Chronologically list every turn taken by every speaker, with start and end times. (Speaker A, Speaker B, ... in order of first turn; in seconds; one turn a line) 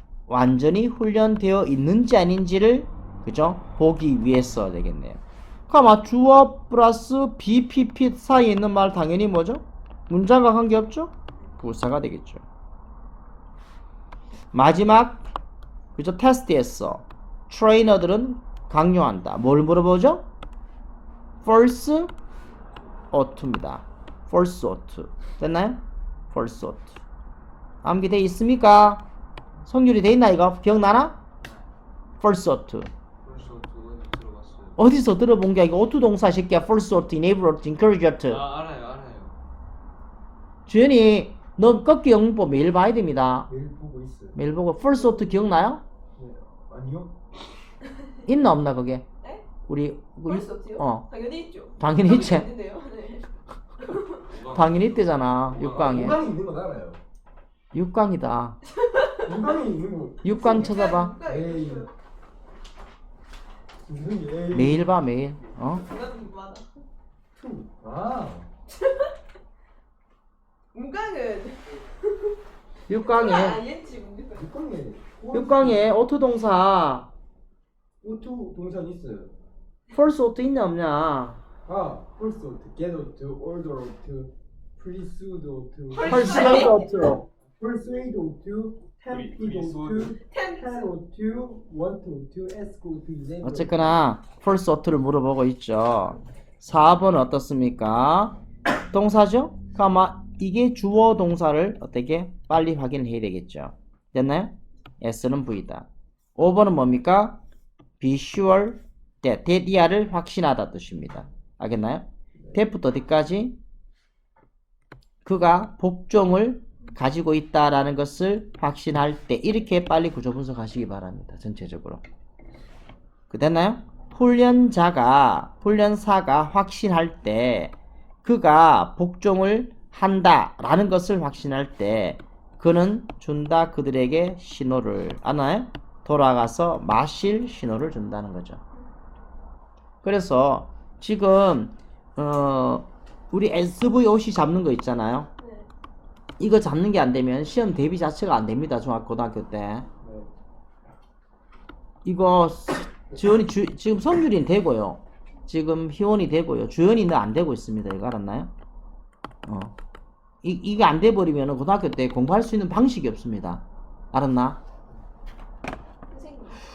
Speaker A: 0.3-12.4
Speaker A: 14.5-15.3
Speaker A: 15.9-20.2
Speaker A: 21.4-22.1
Speaker A: 23.1-27.0
Speaker A: 27.8-29.0
Speaker A: 29.6-31.2
Speaker B: 31.4-31.7
Speaker A: 32.2-32.9
Speaker B: 33.2-34.8
Speaker A: 34.8-38.4
Speaker B: 38.2-39.4
Speaker A: 40.7-43.5
Speaker C: 43.5-44.4
Speaker A: 44.3-45.8
Speaker D: 44.9-45.4
Speaker C: 46.1-47.1
Speaker A: 48.2-49.0
Speaker A: 49.6-51.1
Speaker D: 50.2-54.2
Speaker A: 51.8-52.5
Speaker B: 54.2-56.1
Speaker A: 54.5-56.2
Speaker C: 55.5-57.0
Speaker A: 57.7-58.6
Speaker D: 58.7-59.3
Speaker C: 59.2-61.9
Speaker A: 60.2-61.1
Speaker D: 60.2-61.9
Speaker C: 63.8-64.9
Speaker A: 64.5-65.8
Speaker D: 65.8-66.7
Speaker C: 67.3-68.5
Speaker D: 68.8-69.1
Speaker D: 70.7-72.3
Speaker A: 72.9-73.6
Speaker D: 72.9-74.5
Speaker C: 74.3-75.9
Speaker A: 75.3-77.1
Speaker C: 78.0-79.3
Speaker A: 79.9-81.4
Speaker C: 81.7-86.8
Speaker D: 85.9-86.9
Speaker A: 86.0-87.2
Speaker C: 87.6-93.9
Speaker B: 89.1-90.1
Speaker D: 90.2-90.8
Speaker A: 93.4-98.4
Speaker A: 98.9-107.4
Speaker A: 108.0-113.5
Speaker A: 115.2-122.0
Speaker A: 123.3-138.6
Speaker A: 140.0-145.3
Speaker D: 145.4-145.7
Speaker A: 146.4-149.9
Speaker C: 150.0-150.3
Speaker A: 152.0-158.5
Speaker A: 159.4-159.7
Speaker A: 160.4-164.6
Speaker D: 166.1-166.6